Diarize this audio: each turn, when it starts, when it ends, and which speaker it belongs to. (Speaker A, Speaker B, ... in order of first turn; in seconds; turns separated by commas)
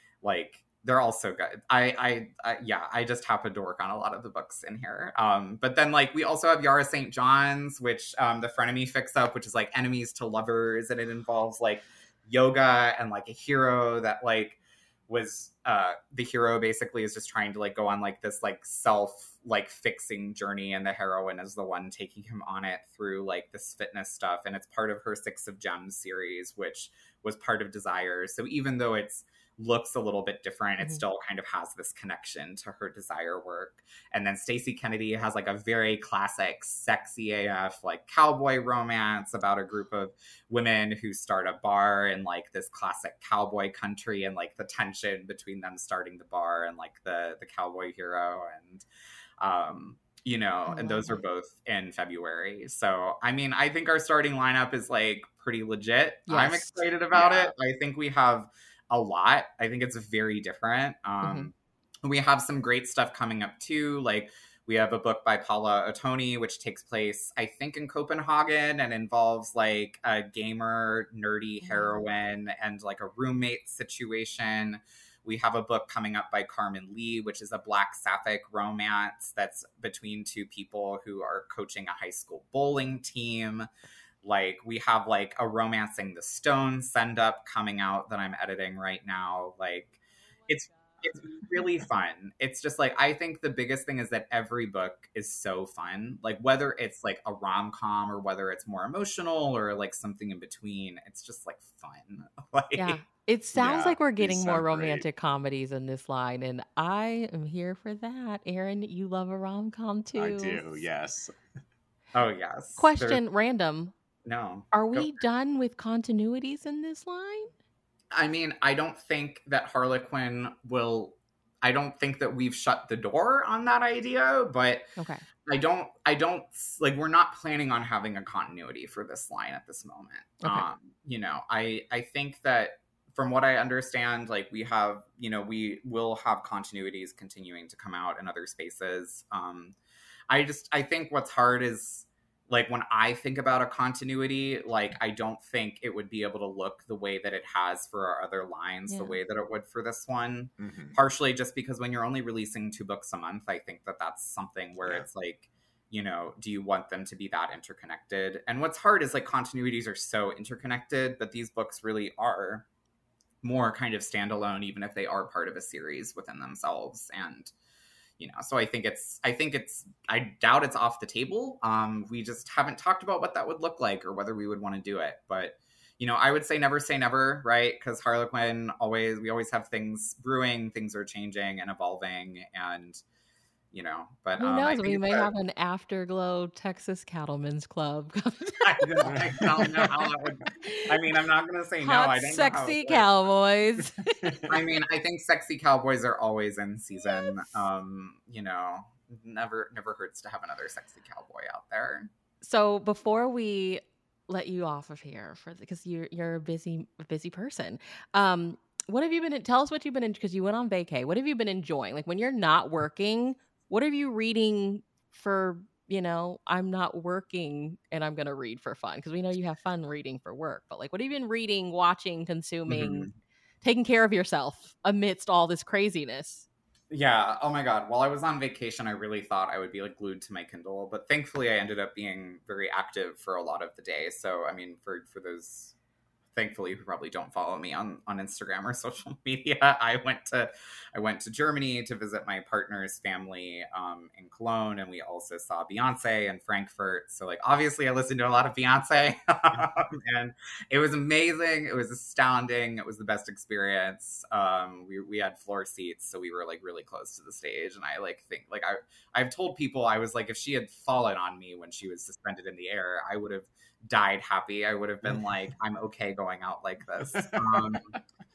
Speaker A: 0.2-48.9, Speaker A: 49.4-61.5, Speaker B: 50.7-51.2, Speaker B: 56.3-56.8, Speaker C: 57.1-57.5, Speaker B: 61.2-61.5, Speaker A: 62.0-83.7, Speaker B: 71.6-72.0, Speaker A: 84.2-103.0, Speaker B: 102.8-110.8, Speaker C: 103.5-105.0, Speaker C: 110.2-111.3, Speaker A: 112.1-113.2, Speaker B: 112.8-113.9, Speaker A: 114.2-115.1, Speaker B: 114.7-117.5, Speaker A: 118.1-124.9, Speaker B: 125.0-125.2, Speaker A: 125.5-139.8, Speaker B: 130.4-130.7, Speaker A: 140.3-162.7, Speaker B: 148.9-149.2, Speaker C: 150.6-151.0, Speaker A: 163.4-167.5, Speaker A: 168.2-183.0, Speaker A: 183.7-185.3, Speaker B: 184.4-189.8, Speaker A: 188.6-193.1, Speaker C: 189.1-189.7, Speaker B: 190.6-190.9, Speaker B: 191.8-194.2, Speaker C: 194.2-194.6, Speaker A: 194.5-202.1, Speaker B: 202.4-223.1, Speaker A: 222.7-223.1, Speaker B: 223.6-226.5, Speaker A: 226.9-235.7, Speaker A: 236.3-268.0, Speaker C: 267.2-267.6